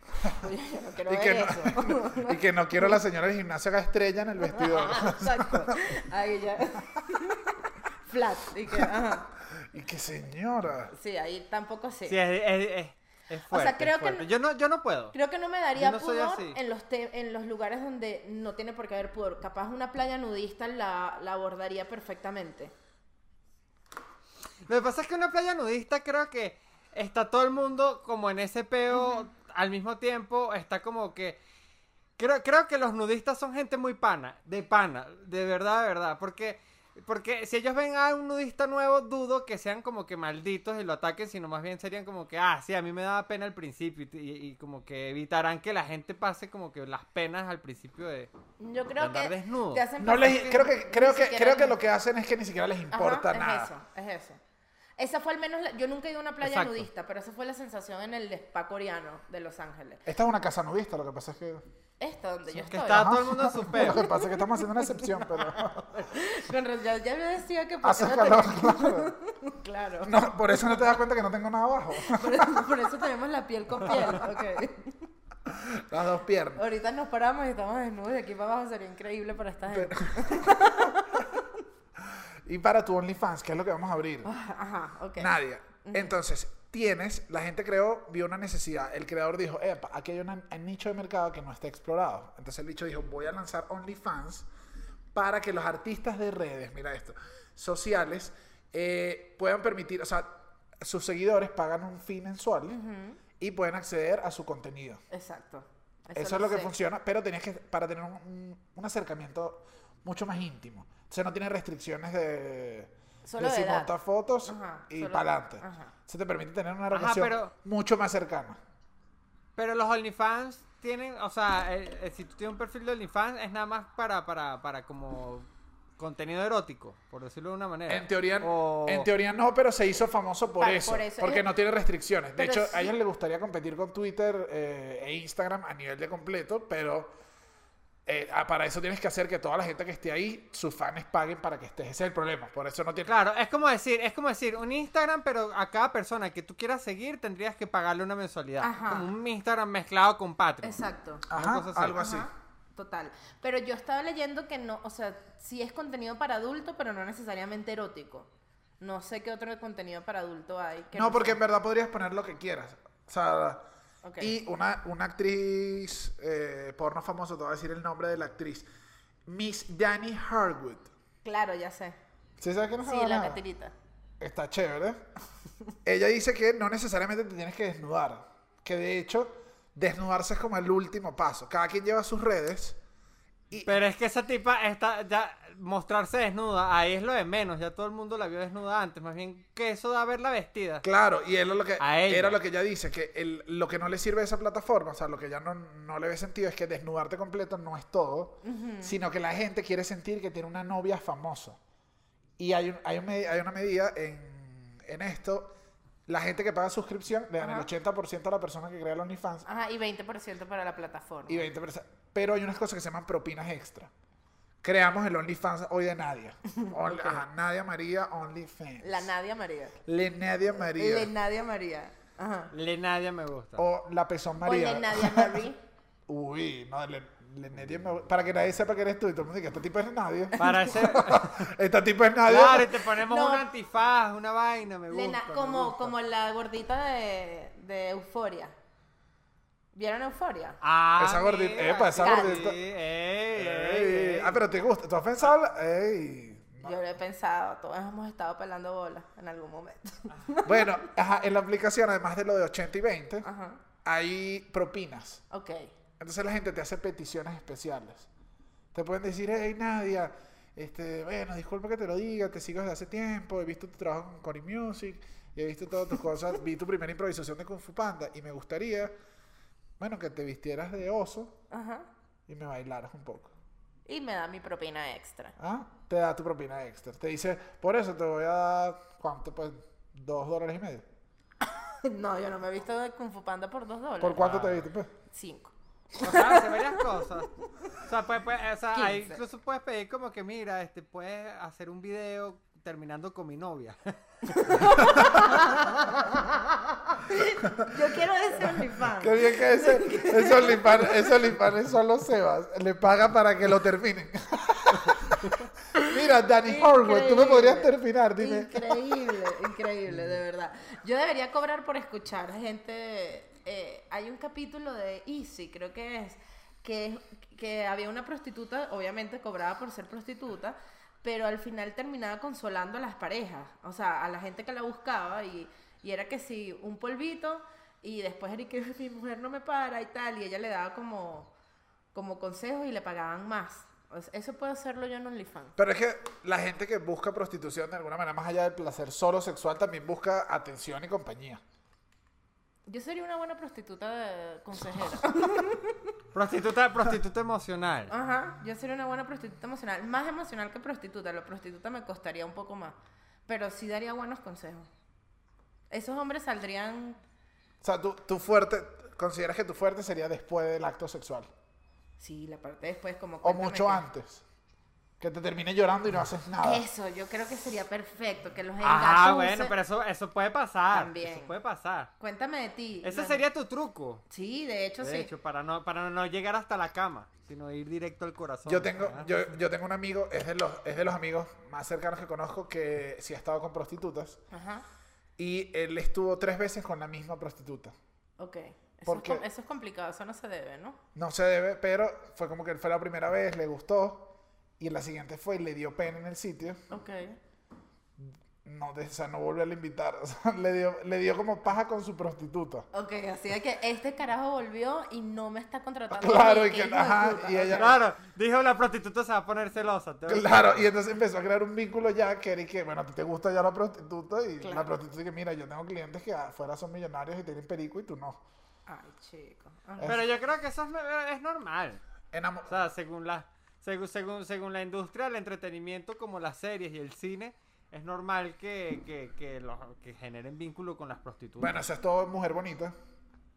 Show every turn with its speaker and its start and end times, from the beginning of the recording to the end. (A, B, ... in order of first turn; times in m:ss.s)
0:00.2-0:03.0 A
0:01.0-0:05.8 B
0:04.4-0:09.3 A
0:09.6-0:10.9 B
0:10.9-0:12.2 A
0:12.1-0:15.2 C
0:13.5-0:14.3 A
0:15.1-0:22.7 A
0:15.7-0:16.6 C
0:24.7-0:31.4 C
0:32.2-0:48.3 C
0:48.6-0:51.8 A
0:49.0-0:49.9 C
0:50.0-0:53.7 B
0:52.9-0:54.4 A
0:55.0-1:00.0 A
0:56.4-0:56.9 C
1:00.0-1:01.6 B
1:02.0-1:03.2 A
1:02.6-1:04.1 C
1:02.8-1:05.9 B
1:03.7-1:10.2 A
1:07.8-1:09.1 B
1:10.0-1:12.4 B
1:11.9-1:15.1 A
1:15.4-1:16.6 B
1:16.6-1:21.4 A
1:19.7-1:20.8 B
1:22.0-1:24.3 B
1:24.2-1:25.3 A
1:25.2-1:34.4 B
1:25.8-1:26.1 A
1:35.1-1:42.8 B
1:42.7-1:43.2 A
1:43.4-1:45.0 B
1:45.1-1:46.7 A
1:46.1-1:58.6 B
1:53.2-1:53.9 A
1:54.4-1:55.9 A
1:56.9-1:57.5 C
1:59.6-2:09.1 C
2:07.9-2:17.1 B
2:10.6-2:11.4 A
2:12.4-2:12.9 A
2:18.0-2:23.1 B
2:23.1-2:32.0 C
2:28.6-2:29.1 A
2:30.6-2:31.2 A
2:31.3-2:32.3 B
2:31.9-2:38.3 A
2:38.8-2:41.4 A
2:40.9-2:43.6 B
2:44.0-2:44.3 A
2:44.2-2:48.7 B
2:49.3-2:50.9 B
2:51.2-2:52.0 A
2:52.4-2:53.4 B
2:52.8-2:53.7 A
2:54.2-2:55.0 B
2:55.8-3:02.8 B
3:03.6-3:10.8 C
3:10.8-3:21.6 B
3:11.8-3:12.4 C
3:18.4-3:19.0 A
3:22.4-3:25.5 B
3:26.1-3:29.4 B
3:27.4-3:27.7 A
3:29.4-3:31.5 A
3:31.3-3:33.9 B
3:34.6-3:39.1 B
3:36.6-3:37.2 A
3:38.8-3:39.8 A
3:39.8-3:41.1 B
3:40.7-3:42.5 A
3:42.5-3:43.6 C
3:43.6-3:45.4 B
3:44.4-3:45.6 A
3:46.1-3:52.8 B
3:50.4-3:51.5 C
3:50.4-3:50.7 A
3:52.2-3:55.9 C
3:53.0-3:53.5 A
3:54.9-3:58.5 A
3:59.7-4:00.6 A
4:00.6-4:04.4 C
4:01.0-4:02.6 B
4:02.0-4:02.5 A
4:03.3-4:06.8 B
4:06.6-4:10.8 A
4:10.4-4:13.3 B
4:13.2-4:13.6 A
4:13.8-4:15.2 B
4:15.3-4:15.7 A
4:16.0-4:18.1 B
4:18.7-4:28.9 B
4:29.8-4:31.4 B
4:31.5-4:31.9 A
4:32.3-4:33.3 B
4:33.8-4:35.3 A
4:35.4-4:40.8 B
4:41.8-4:44.2 A
4:44.0-4:44.9 B
4:44.2-4:44.6 C
4:45.1-4:46.8 A
4:46.0-4:54.7 C
4:48.7-4:49.2 A
4:54.2-5:01.1 A
4:58.6-5:05.2 B
5:05.7-5:09.4 B
5:06.4-5:31.3 A
5:31.9-5:35.5 A
5:35.6-5:41.4 B
5:42.6-5:45.9 A
5:46.1-5:47.9 C
5:47.9-5:52.8 A
5:53.3-5:54.7 A
5:55.7-5:57.0 A
5:57.6-6:01.3 B
6:02.0-6:03.8 A
6:03.2-6:04.2 B
6:05.0-6:06.6 B
6:06.4-6:09.5 A
6:08.6-6:11.9 C
6:10.7-6:11.3 A
6:12.0-6:13.2 A
6:12.8-6:14.0 C
6:14.1-6:15.1 A
6:14.8-6:19.2 C
6:18.4-6:24.2 B
6:24.3-6:24.6 A
6:25.2-6:27.7 B
6:28.2-6:30.8 A
6:28.8-6:29.2 B
6:30.9-6:36.6 B
6:36.7-6:37.2 A
6:38.0-6:42.6 B
6:42.7-6:47.8 A
6:45.9-6:47.8 B
6:47.5-6:50.7 C
6:50.1-6:58.2 B
6:54.4-6:54.7 A
6:58.7-7:00.0 A
6:59.8-7:01.8 C
7:02.1-7:02.5 B
7:02.5-7:11.6 C
7:11.4-7:12.7 B